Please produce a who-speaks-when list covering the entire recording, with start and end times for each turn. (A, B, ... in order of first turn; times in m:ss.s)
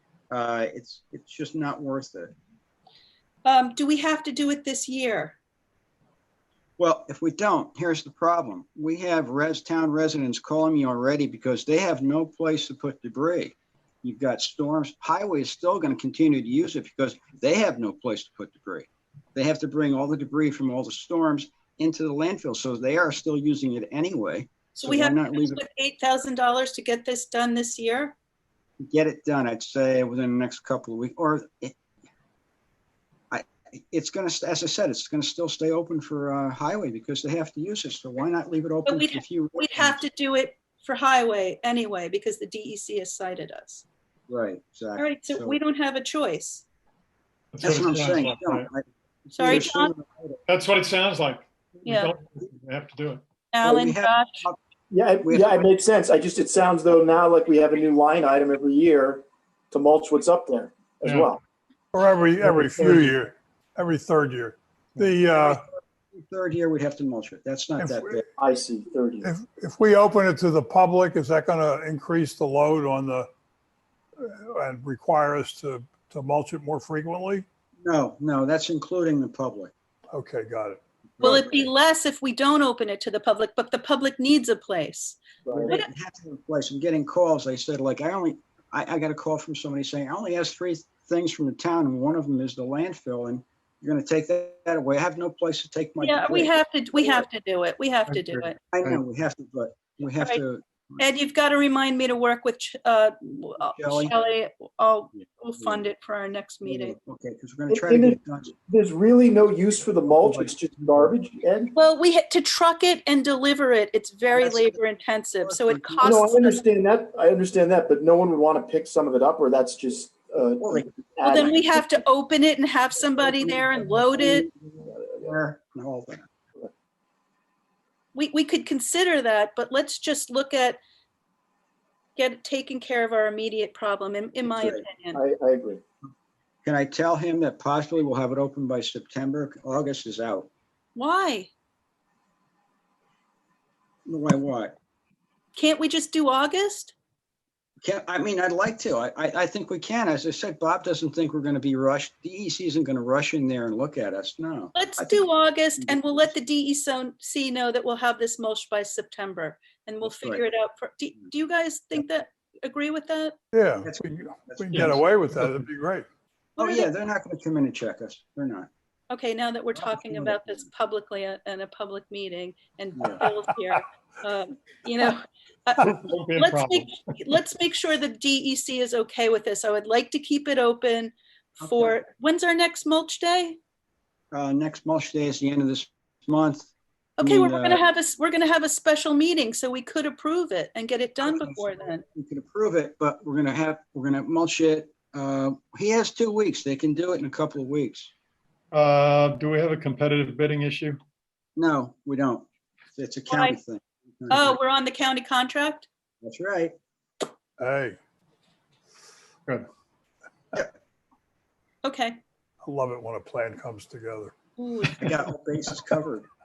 0:00.3-0:02.3 A
0:03.4-0:05.4 B
0:06.8-0:25.6 A
0:24.7-0:28.1 B
0:28.8-0:31.8 A
0:33.3-0:40.0 A
0:38.9-0:43.8 B
0:44.3-0:45.6 A
0:45.0-0:46.6 B
0:47.5-0:48.7 C
0:47.6-0:50.4 A
0:49.3-0:49.9 B
0:50.5-0:53.2 C
0:51.8-0:52.1 B
0:53.5-0:54.5 B
0:53.6-0:54.6 A
0:54.9-1:01.4 D
0:55.2-0:55.7 A
1:01.0-1:01.3 C
1:01.9-1:05.6 E
1:02.5-1:03.0 D
1:05.3-1:08.2 A
1:07.8-1:08.2 E
1:08.4-1:09.3 D
1:09.2-1:13.3 E
1:14.2-1:17.4 E
1:17.8-1:19.7 A
1:20.1-1:20.8 E
1:21.1-1:21.7 A
1:21.2-1:25.9 B
1:25.4-1:25.8 D
1:25.5-1:37.2 A
1:36.0-1:38.6 B
1:38.7-1:41.0 A
1:40.1-1:40.4 B
1:41.0-1:47.0 B
1:43.7-1:44.1 A
1:45.1-1:45.9 A
1:46.6-1:48.5 A
1:47.7-1:51.7 D
1:50.1-1:51.1 A
1:51.7-1:56.6 B
1:54.3-1:54.8 A
1:55.4-1:56.2 A
1:56.0-2:01.9 D
2:00.6-2:01.6 A
2:01.2-2:04.5 B
2:03.0-2:06.3 A
2:04.8-2:05.2 D
2:08.1-2:10.8 B
2:12.2-2:15.2 B
2:14.6-2:14.9 A
2:15.1-2:15.8 D
2:16.6-2:20.5 A
2:21.0-2:21.5 B
2:24.0-2:24.8 A
2:25.5-2:26.9 B
2:27.8-2:36.3 A
2:34.7-2:43.3 B
2:40.0-2:40.4 A
2:43.5-2:46.0 E
2:43.8-2:45.0 A
2:46.6-2:46.9 B
2:46.6-2:48.7 A
2:49.1-3:03.6 B
2:49.8-2:50.6 A
2:53.0-2:53.2 A
2:55.8-2:56.9 C
3:01.6-3:02.0 A
3:04.3-3:07.8 A
3:07.2-3:12.0 B
3:11.2-3:18.1 A
3:18.7-3:21.0 C
3:21.6-3:24.6 A
3:23.3-3:23.6 B
3:24.3-3:25.9 B
3:26.2-3:26.7 A
3:27.6-3:28.0 E
3:31.8-3:32.2 B
3:32.6-3:34.3 E
3:34.6-3:35.1 B
3:35.0-3:36.3 A